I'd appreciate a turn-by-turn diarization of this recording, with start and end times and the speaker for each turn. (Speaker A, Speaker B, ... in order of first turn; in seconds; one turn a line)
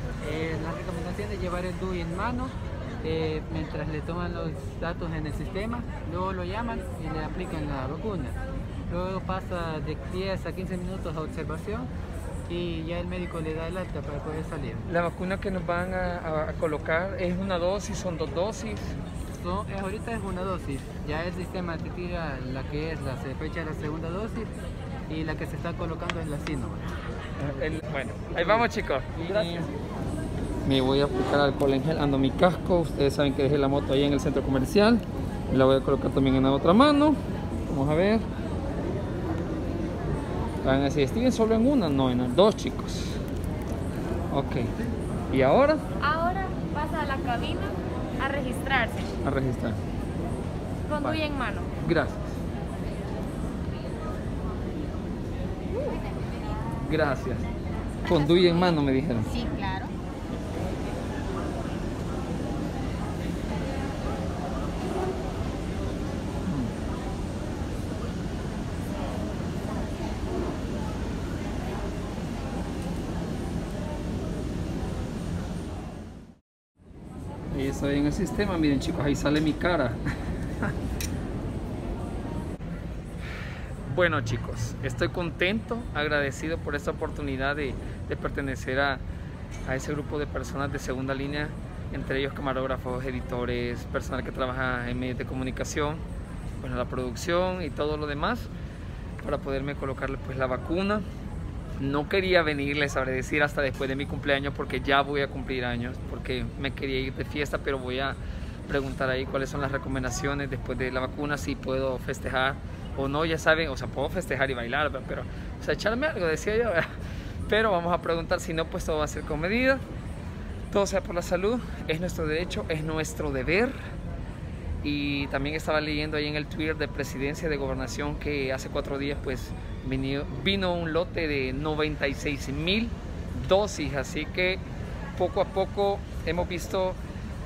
Speaker A: 0.2-11.9
Speaker A: 12.5-14.8
Speaker B: 14.9-19.0
Speaker A: 19.4-24.5
Speaker A: 25.1-26.9
Speaker B: 27.4-29.7
Speaker B: 30.6-38.3
Speaker B: 40.6-43.2
Speaker B: 44.3-44.7
Speaker B: 45.3-45.8
Speaker C: 46.0-49.1
Speaker B: 49.2-49.8
Speaker C: 50.9-51.7
Speaker B: 51.8-52.2
Speaker B: 56.8-57.5
Speaker B: 58.1-59.3
Speaker B: 77.5-80.0
Speaker B: 83.8-89.0
Speaker B: 89.7-96.0
Speaker B: 96.6-98.5
Speaker B: 99.2-101.0
Speaker B: 101.8-116.9
Speaker B: 117.5-119.8
Speaker B: 120.7-123.8
Speaker B: 124.8-134.6
Speaker B: 135.2-137.0